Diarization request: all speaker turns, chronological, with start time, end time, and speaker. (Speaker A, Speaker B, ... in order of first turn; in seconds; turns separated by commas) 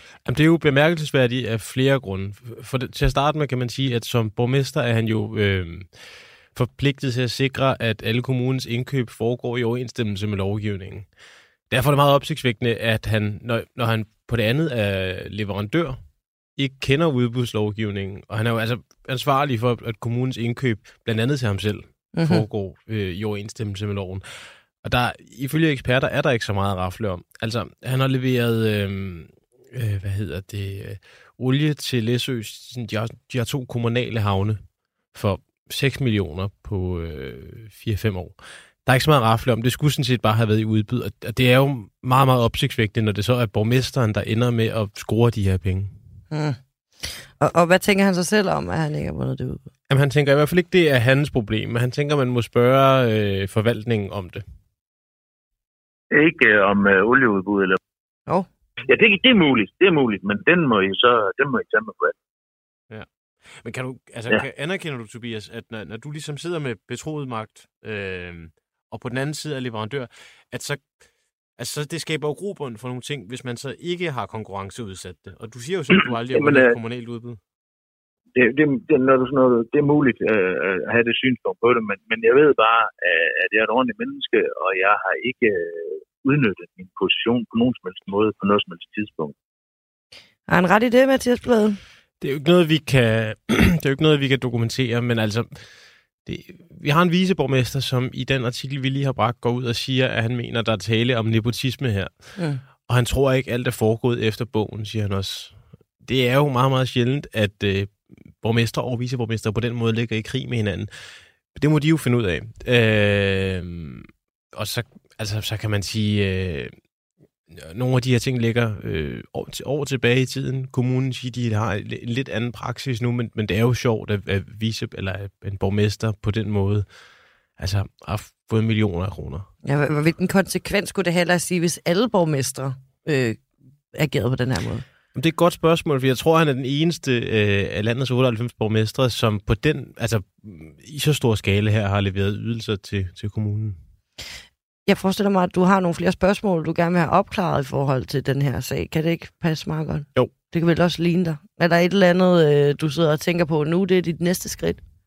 Speaker A: 0.2-46.1, Speaker B: 22.1-22.4, Speaker B: 46.3-49.6, Speaker A: 49.9-54.5, Speaker C: 56.1-57.8, Speaker C: 58.8-62.1, Speaker A: 62.9-77.4, Speaker C: 76.3-76.8, Speaker C: 78.3-89.3, Speaker B: 90.5-91.8, Speaker A: 92.2-116.9, Speaker B: 102.4-102.6, Speaker A: 117.5-129.5, Speaker B: 129.6-134.8, Speaker A: 135.1-143.8, Speaker B: 144.9-154.8